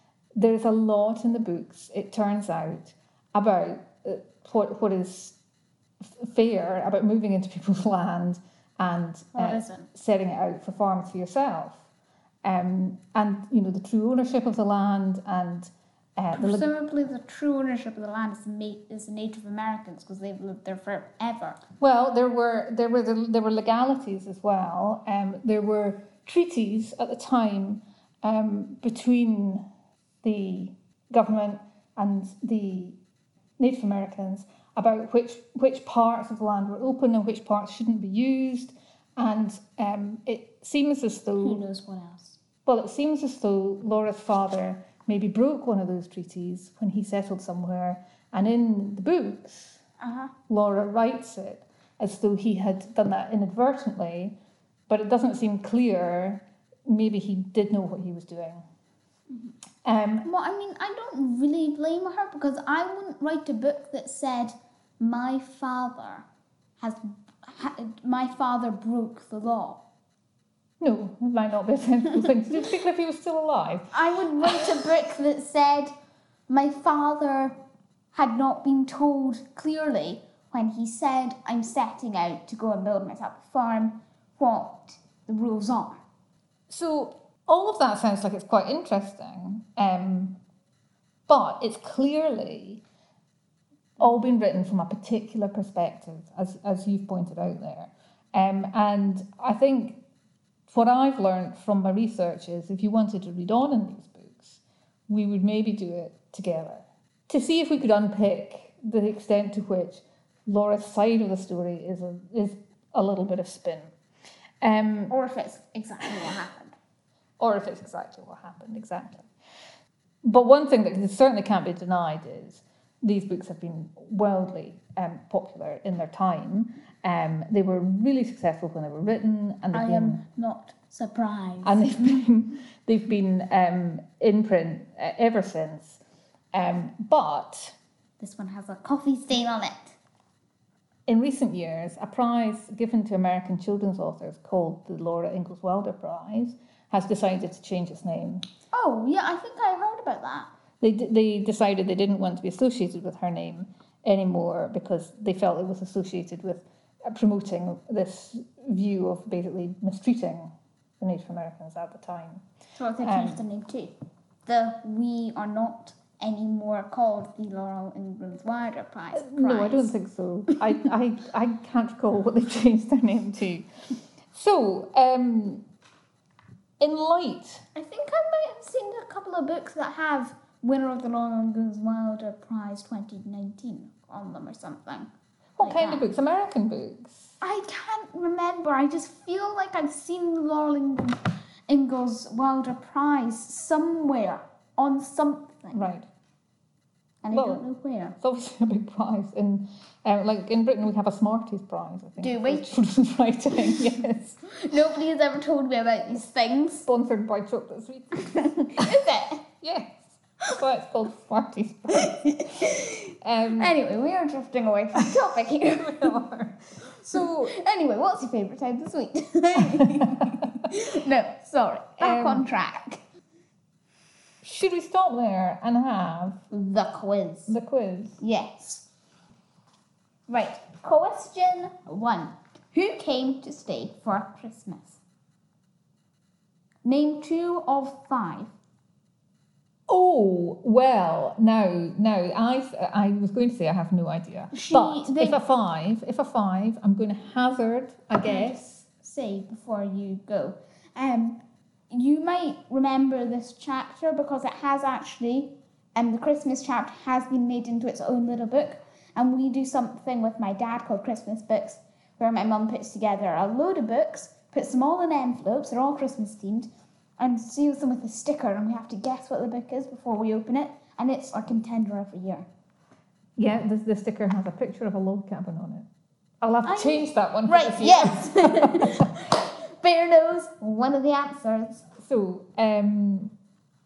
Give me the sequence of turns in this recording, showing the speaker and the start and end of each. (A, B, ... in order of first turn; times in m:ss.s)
0:00.3-0:05.4 A
0:06.0-0:11.8 A
0:09.3-0:09.9 B
0:12.4-0:16.7 A
0:16.3-0:21.6 B
0:21.8-0:29.6 A
0:30.2-0:33.0 A
0:33.6-0:41.6 A
0:41.4-0:42.4 B
0:42.6-0:49.8 A
0:50.0-0:50.3 B
0:50.5-0:54.4 A
0:54.9-0:58.6 A
0:59.8-1:00.3 A
1:00.2-1:06.2 B
1:06.8-1:09.8 B
1:10.8-1:14.9 A
1:13.9-1:15.9 B
1:16.5-1:17.6 B
1:18.1-1:26.0 B
1:26.7-1:30.4 A
1:31.3-1:32.8 A
1:34.0-1:40.0 A
1:40.7-1:53.9 A
1:54.6-1:55.1 A
1:55.1-1:56.8 B
1:57.4-1:59.3 A
2:00.2-2:10.2 A
2:09.7-2:12.2 B
2:11.6-2:16.0 A
2:16.5-2:17.8 A
2:18.2-2:20.0 B
2:21.1-2:28.4 A
2:28.7-2:30.5 B
2:30.8-2:42.4 A
2:42.8-2:43.9 B
2:43.0-2:43.4 A
2:44.4-2:49.9 B
2:49.1-2:53.7 A
2:54.3-2:55.6 A
2:56.8-2:57.6 A
2:57.7-3:05.1 B
3:05.6-3:07.4 A
3:05.6-3:06.0 B
3:07.4-3:15.8 B
3:15.7-3:16.1 A
3:17.2-3:18.1 B
3:17.3-3:17.6 A
3:18.1-3:24.4 A
3:22.2-3:22.8 B
3:24.4-3:26.8 B
3:26.8-3:33.7 A
3:28.2-3:29.4 B
3:31.9-3:36.2 B
3:35.0-3:37.6 A
3:36.8-3:43.0 B
3:39.8-3:40.3 A
3:42.0-3:42.4 A
3:44.4-3:46.4 A
3:46.5-3:47.5 B
3:47.5-3:48.2 A
3:48.2-3:48.9 B
3:50.3-3:55.0 B
3:56.8-3:58.5 B
3:59.9-4:08.8 A
4:04.5-4:05.4 B
4:08.2-4:32.5 B
4:33.4-4:35.9 A
4:36.4-4:39.1 A
4:36.6-4:41.9 B
4:42.0-4:43.3 A